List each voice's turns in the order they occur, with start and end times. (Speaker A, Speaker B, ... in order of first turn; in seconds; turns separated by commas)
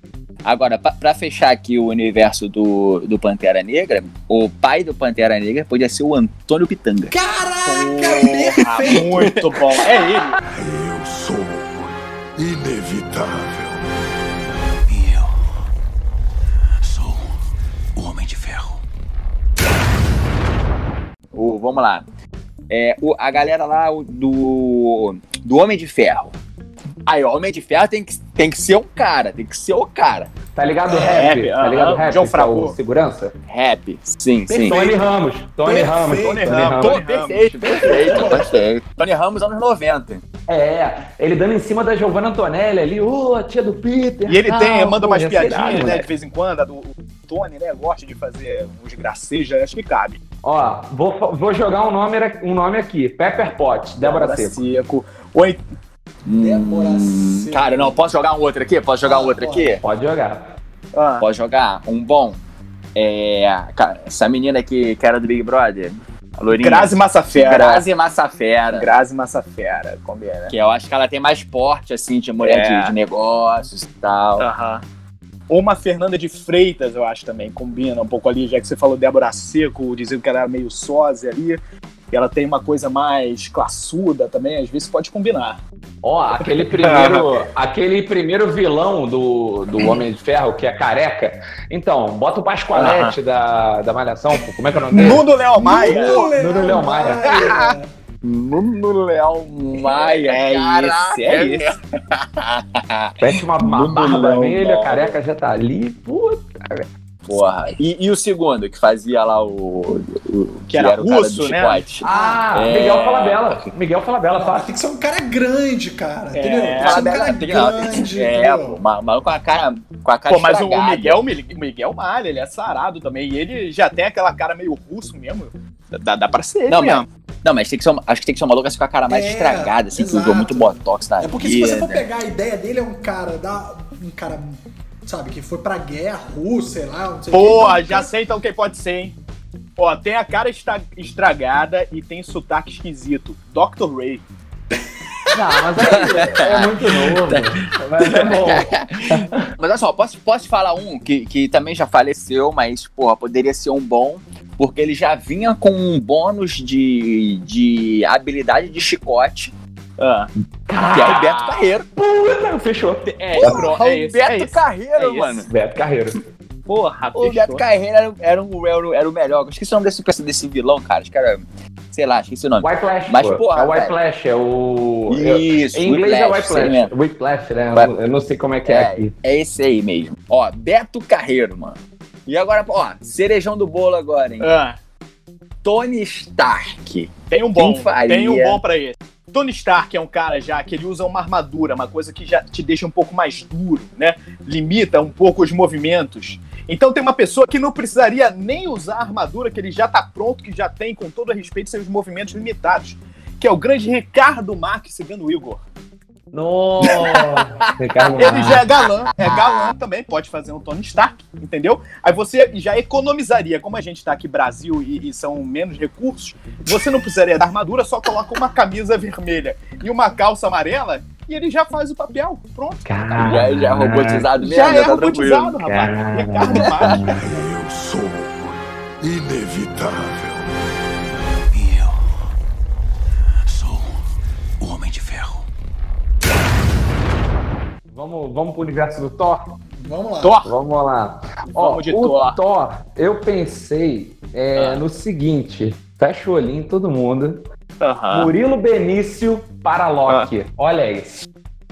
Speaker A: 0.4-7.2, Speaker B: 7.1-9.3, Speaker C: 7.7-10.4, Speaker A: 8.8-10.0, Speaker D: 10.4-14.0, Speaker A: 18.1-18.7, Speaker A: 21.3-22.1, Speaker A: 22.7-26.3, Speaker A: 27.1-30.3, Speaker E: 30.5-33.3, Speaker B: 30.9-31.3, Speaker C: 31.0-32.8, Speaker A: 33.5-34.8, Speaker B: 34.5-34.9, Speaker E: 34.6-37.0, Speaker B: 35.6-36.7, Speaker C: 36.1-37.9, Speaker A: 36.8-40.2, Speaker B: 37.7-38.6, Speaker E: 37.8-38.2, Speaker E: 40.5-46.1, Speaker C: 44.2-50.2, Speaker E: 50.4-54.6, Speaker C: 54.0-55.6, Speaker A: 56.2-59.8, Speaker B: 56.3-58.0, Speaker B: 59.0-59.7, Speaker E: 59.8-60.5, Speaker C: 60.9-61.2, Speaker A: 61.2-62.4, Speaker A: 62.9-68.9, Speaker C: 66.5-67.9, Speaker C: 68.7-70.5, Speaker A: 70.5-74.5, Speaker C: 72.4-73.0, Speaker C: 74.4-74.8, Speaker C: 75.5-81.6, Speaker C: 82.1-85.6, Speaker E: 86.0-95.3, Speaker C: 86.4-87.5, Speaker C: 92.7-93.2, Speaker C: 94.9-96.3, Speaker B: 95.5-97.9, Speaker E: 95.9-97.3, Speaker C: 97.2-97.7, Speaker A: 97.3-105.0, Speaker C: 99.7-101.7, Speaker E: 103.2-106.9, Speaker A: 107.2-113.6, Speaker C: 110.7-111.8, Speaker E: 112.0-114.7, Speaker B: 112.0-112.4, Speaker B: 114.3-118.8, Speaker C: 116.3-117.3, Speaker A: 116.8-121.2, Speaker C: 120.3-127.0, Speaker A: 126.7-132.0, Speaker B: 129.1-138.1, Speaker C: 137.3-139.2, Speaker C: 139.8-144.2, Speaker E: 145.3-149.5, Speaker A: 145.8-159.5, Speaker C: 160.0-160.3, Speaker E: 160.7-163.6, Speaker A: 160.9-161.9, Speaker C: 163.0-165.4, Speaker A: 163.3-165.5, Speaker E: 165.5-166.2, Speaker C: 166.7-167.6, Speaker A: 167.1-173.9, Speaker E: 172.6-179.1, Speaker A: 175.1-176.9, Speaker A: 178.6-184.5, Speaker C: 184.4-184.8, Speaker A: 185.6-188.6, Speaker C: 187.3-205.6, Speaker E: 206.3-208.6, Speaker C: 206.8-207.1, Speaker A: 206.8-207.1, Speaker A: 208.0-209.7, Speaker C: 208.2-223.4, Speaker E: 222.8-224.3, Speaker A: 223.2-225.6, Speaker C: 224.4-227.2, Speaker E: 225.6-227.2, Speaker D: 227.0-230.6, Speaker D: 234.6-235.3, Speaker E: 237.9-239.4, Speaker B: 239.8-240.4, Speaker C: 240.2-240.5, Speaker E: 240.4-247.4, Speaker C: 241.6-242.4, Speaker C: 244.6-244.8, Speaker C: 247.8-248.3, Speaker E: 248.1-251.2